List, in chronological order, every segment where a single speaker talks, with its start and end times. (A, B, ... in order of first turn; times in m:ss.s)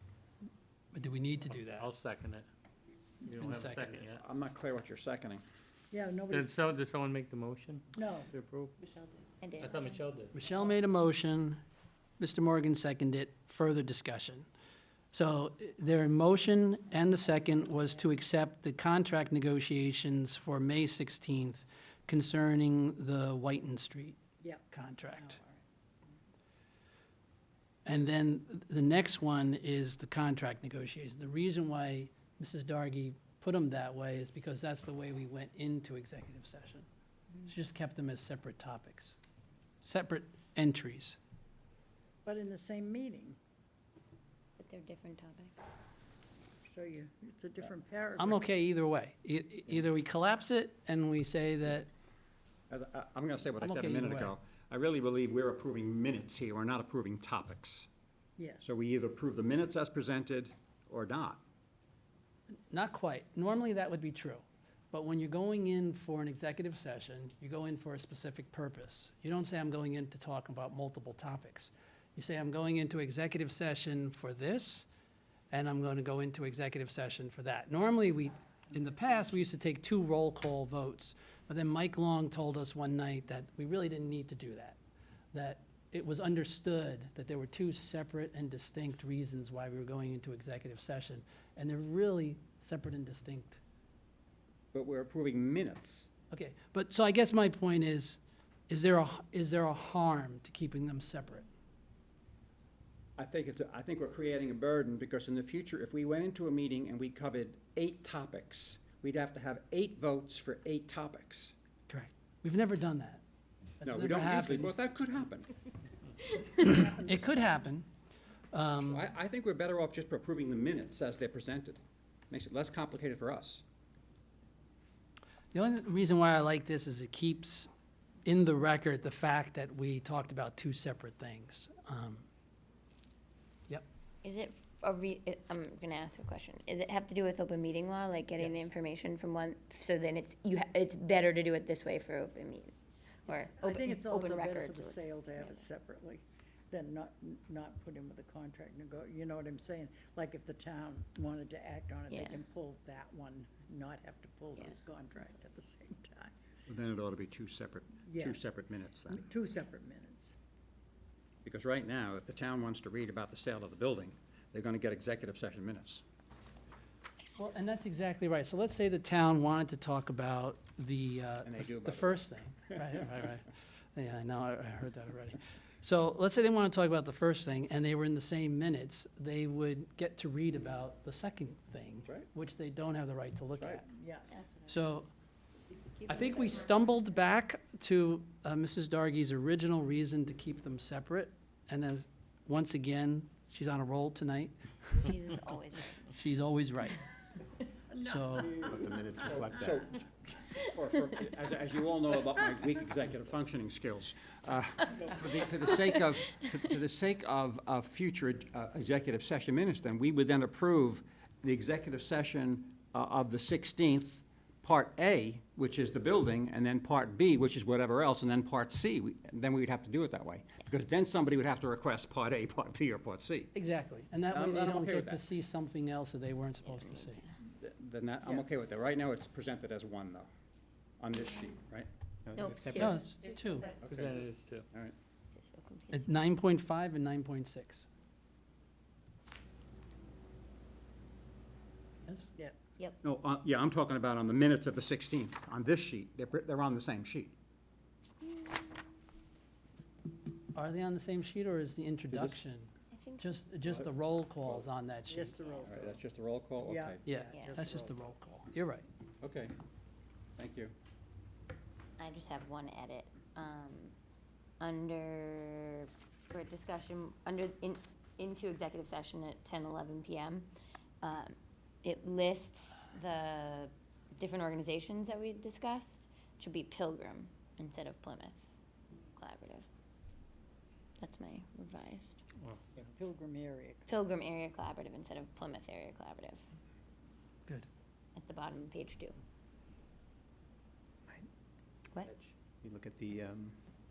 0:00.9-0:01.9 A
0:01.5-0:02.5 B
0:03.2-0:04.2 B
0:03.4-0:03.9 A
0:04.1-0:05.4 C
0:05.9-0:06.6 D
0:06.3-0:08.7 B
0:08.0-0:08.3 D
0:09.4-0:09.8 E
0:09.6-0:10.3 B
0:10.3-0:11.6 A
0:12.2-0:14.5 A
0:15.1-0:24.2 A
0:24.4-0:25.6 D
0:24.7-0:25.4 A
0:27.8-0:36.9 A
0:37.5-0:39.2 A
0:39.8-0:41.2 A
0:42.2-0:43.4 D
0:44.6-0:45.6 E
0:46.7-0:48.4 D
0:48.2-0:51.9 A
0:52.7-0:57.9 C
0:53.6-0:54.3 A
0:58.4-0:58.7 D
0:58.6-1:01.4 C
1:02.7-1:14.9 A
1:15.5-1:24.8 A
1:25.3-1:33.6 A
1:34.7-1:36.1 C
1:36.3-1:41.5 A
1:43.2-1:51.5 C
1:51.9-1:53.2 A
1:53.8-1:54.8 A
1:53.8-1:55.5 C
1:56.6-1:57.9 A
1:56.6-1:57.2 D
1:58.5-1:59.1 A
1:58.8-2:03.6 C
2:05.5-2:07.7 A
2:08.2-2:12.3 A
2:14.2-2:22.7 E
2:18.4-2:18.7 A
2:23.3-2:25.7 E
2:23.3-2:36.3 D
2:32.1-2:32.4 E
2:36.7-2:39.2 C
2:38.1-2:38.5 D
2:39.1-2:40.4 D
2:41.4-2:46.0 C
2:47.4-3:03.9 A
2:51.4-2:52.2 C
3:03.6-3:03.8 C
3:03.9-3:04.3 D
3:04.3-3:05.0 E
3:04.7-3:05.1 A
3:05.9-3:06.6 E
3:06.1-3:15.0 A
3:15.0-3:16.1 E
3:16.1-3:17.0 A
3:17.9-3:19.7 D
3:18.0-3:18.7 A
3:18.6-3:19.8 F
3:19.4-3:19.8 E
3:19.6-3:43.5 C
3:43.5-3:47.2 A
3:44.3-3:45.3 C
3:46.6-3:47.3 E
3:47.5-3:50.3 C
3:51.0-3:51.9 C
3:52.2-3:53.0 F
3:52.4-3:53.8 E
3:52.8-3:53.7 A
3:53.8-3:55.0 C
3:53.8-3:54.7 B
3:55.3-3:56.0 E
3:55.9-3:57.9 A
4:03.0-4:07.3 C
4:10.6-4:15.3 A
4:12.1-4:12.4 C
4:12.9-4:13.3 E
4:15.1-4:16.0 D
4:15.6-4:17.0 C
4:16.6-4:17.8 D
4:17.0-4:18.9 A
4:17.3-4:17.7 E
4:19.2-4:19.5 C
4:20.4-4:20.7 C
4:22.0-4:23.9 E
4:24.6-4:30.5 E
4:31.0-4:38.4 E
4:39.2-4:39.7 E
4:41.0-4:42.2 E
4:42.4-4:42.7 B
4:42.8-4:43.8 D
4:43.9-4:46.4 E
4:48.2-4:49.2 E
4:52.6-4:53.7 F